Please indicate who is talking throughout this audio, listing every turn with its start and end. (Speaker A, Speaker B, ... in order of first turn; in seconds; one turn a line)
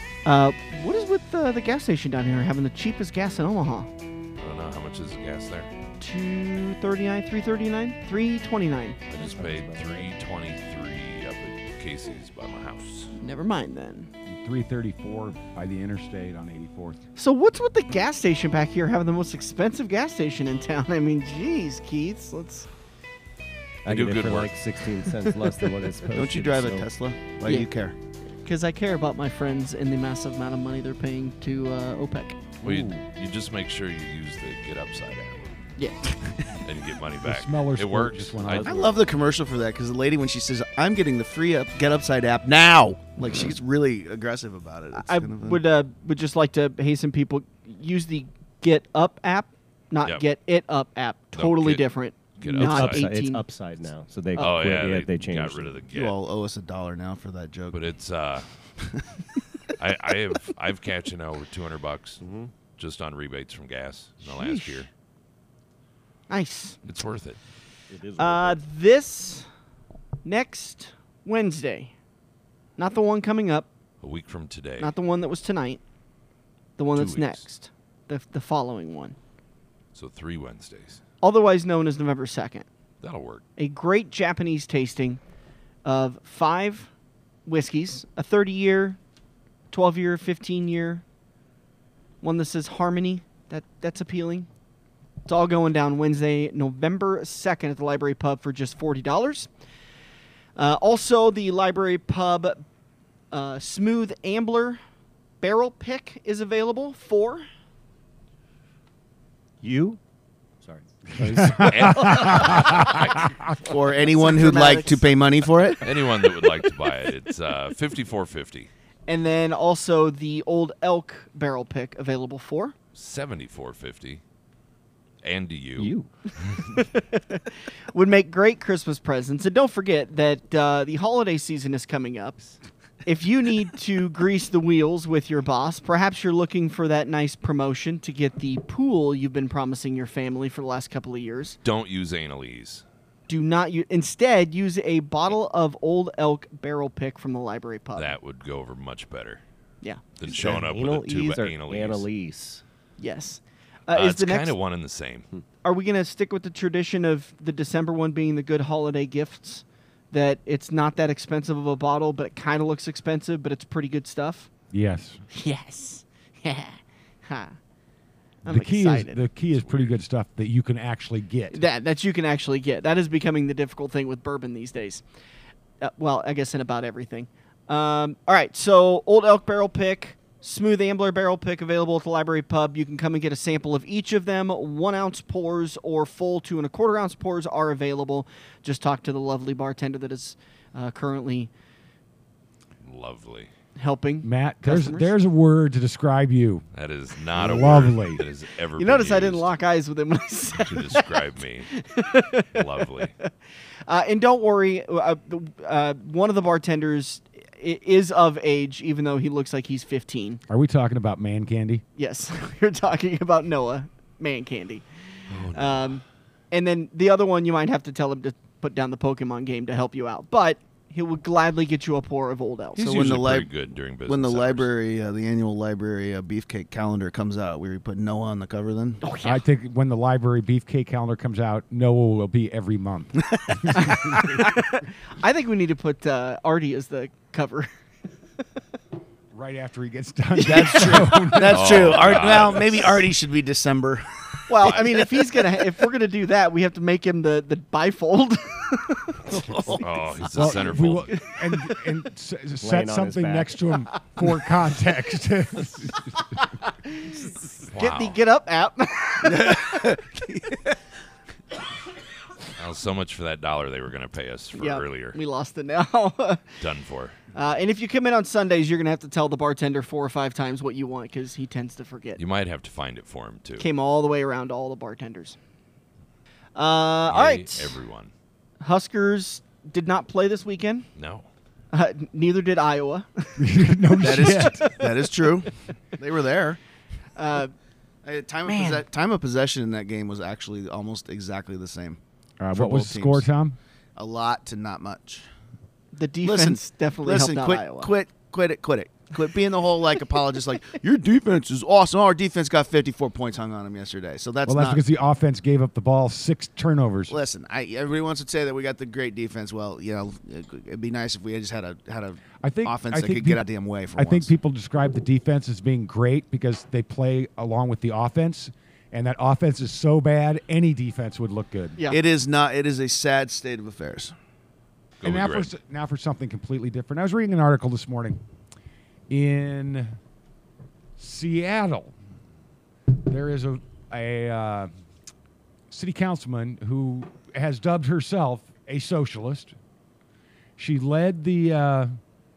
Speaker A: 0.2-3.9
Speaker B: 4.4-5.7
Speaker A: 6.0-9.0
Speaker B: 9.1-13.1
Speaker C: 9.1-10.1
Speaker A: 13.2-14.1
Speaker D: 14.3-17.0
Speaker A: 17.1-22.7
Speaker C: 23.8-26.9
Speaker B: 23.9-24.5
Speaker E: 26.1-27.9
Speaker A: 28.4-32.4
Speaker D: 32.6-32.9
Speaker B: 32.6-35.5
Speaker A: 35.8-36.1
Speaker B: 36.5-38.9
Speaker D: 37.2-38.7
Speaker C: 38.5-38.9
Speaker E: 38.6-45.6
Speaker A: 44.9-53.4
Speaker B: 51.4-53.1
Speaker C: 52.5-55.8
Speaker A: 54.3-54.6
Speaker B: 54.4-56.1
Speaker E: 55.9-57.8
Speaker B: 57.7-58.5
Speaker B: 59.8-62.2
Speaker C: 62.2-62.5
Speaker B: 62.8-64.9
Speaker A: 64.2-64.9
Speaker A: 66.3-66.8
Speaker B: 66.8-67.4
Speaker C: 67.9-68.6
Speaker A: 68.2-69.5
Speaker A: 70.2-71.9
Speaker A: 72.8-73.7
Speaker B: 74.0-74.9
Speaker A: 74.8-75.8
Speaker A: 76.8-79.2
Speaker B: 76.9-77.4
Speaker B: 79.9-81.0
Speaker A: 81.2-82.7
Speaker B: 83.0-83.4
Speaker A: 83.6-85.2
Speaker A: 85.8-86.9
Speaker A: 87.5-89.0
Speaker A: 89.7-91.0
Speaker A: 92.2-94.5
Speaker A: 95.2-99.5
Speaker A: 100.5-102.6
Speaker A: 103.3-104.8
Speaker A: 105.4-107.5
Speaker C: 109.6-110.0
Speaker C: 110.6-113.0
Speaker D: 111.1-113.5
Speaker B: 111.6-113.1
Speaker A: 111.7-113.0
Speaker E: 113.6-115.9
Speaker A: 114.0-115.1
Speaker B: 115.8-118.7
Speaker A: 119.1-122.7
Speaker B: 122.9-124.2
Speaker B: 125.2-125.9
Speaker C: 125.8-126.1
Speaker A: 126.7-132.5
Speaker A: 133.1-141.6
Speaker B: 141.6-142.8
Speaker A: 143.3-148.1
Speaker B: 147.9-149.4
Speaker B: 150.2-152.1
Speaker C: 150.2-152.6
Speaker A: 153.0-154.5
Speaker B: 153.9-155.2
Speaker A: 155.6-164.5
Speaker D: 164.7-165.2
Speaker A: 165.3-167.6
Speaker A: 168.4-169.2
Speaker D: 168.4-171.6
Speaker B: 169.5-169.9
Speaker A: 171.5-175.0
Speaker A: 175.8-191.5
Speaker B: 192.8-193.5
Speaker A: 193.8-195.1
Speaker D: 194.2-196.6
Speaker B: 196.7-199.5
Speaker D: 197.3-198.2
Speaker A: 198.8-202.6
Speaker B: 200.6-201.7
Speaker B: 202.5-203.1
Speaker A: 203.9-210.4
Speaker D: 210.5-211.8
Speaker A: 212.0-214.8
Speaker B: 215.3-216.0
Speaker A: 215.5-222.9
Speaker B: 222.8-224.7
Speaker E: 222.8-223.5
Speaker E: 224.1-229.0
Speaker A: 229.0-229.4
Speaker D: 229.2-234.8
Speaker A: 234.2-237.7
Speaker D: 239.3-242.3
Speaker A: 240.3-241.6
Speaker E: 240.4-244.9
Speaker B: 241.5-242.9
Speaker A: 244.5-250.5
Speaker B: 249.3-251.2
Speaker D: 250.3-256.4
Speaker A: 251.1-251.9
Speaker C: 252.6-253.7
Speaker A: 253.9-254.2
Speaker A: 256.6-260.0
Speaker B: 257.7-258.2
Speaker E: 259.2-260.6
Speaker B: 262.6-265.1
Speaker A: 264.5-266.6
Speaker B: 266.6-267.2
Speaker A: 267.3-272.2
Speaker B: 272.2-273.6
Speaker A: 273.6-275.4
Speaker A: 276.5-277.8
Speaker B: 277.1-278.1
Speaker A: 278.6-280.9
Speaker B: 281.0-281.2
Speaker A: 281.7-285.1
Speaker D: 283.4-284.6
Speaker E: 284.0-286.6
Speaker A: 287.1-287.5
Speaker E: 288.0-292.0
Speaker A: 288.4-288.8
Speaker D: 292.4-293.6
Speaker E: 292.5-293.2
Speaker E: 293.9-295.2
Speaker A: 295.9-297.9
Speaker E: 296.2-304.8
Speaker D: 304.4-307.1
Speaker E: 307.1-314.3
Speaker D: 312.4-313.4
Speaker D: 313.9-321.8
Speaker E: 321.9-324.1
Speaker B: 325.0-325.5
Speaker D: 325.0-328.2
Speaker D: 329.1-330.0
Speaker D: 331.0-331.9
Speaker D: 332.9-334.7
Speaker D: 335.7-339.5
Speaker D: 340.6-342.0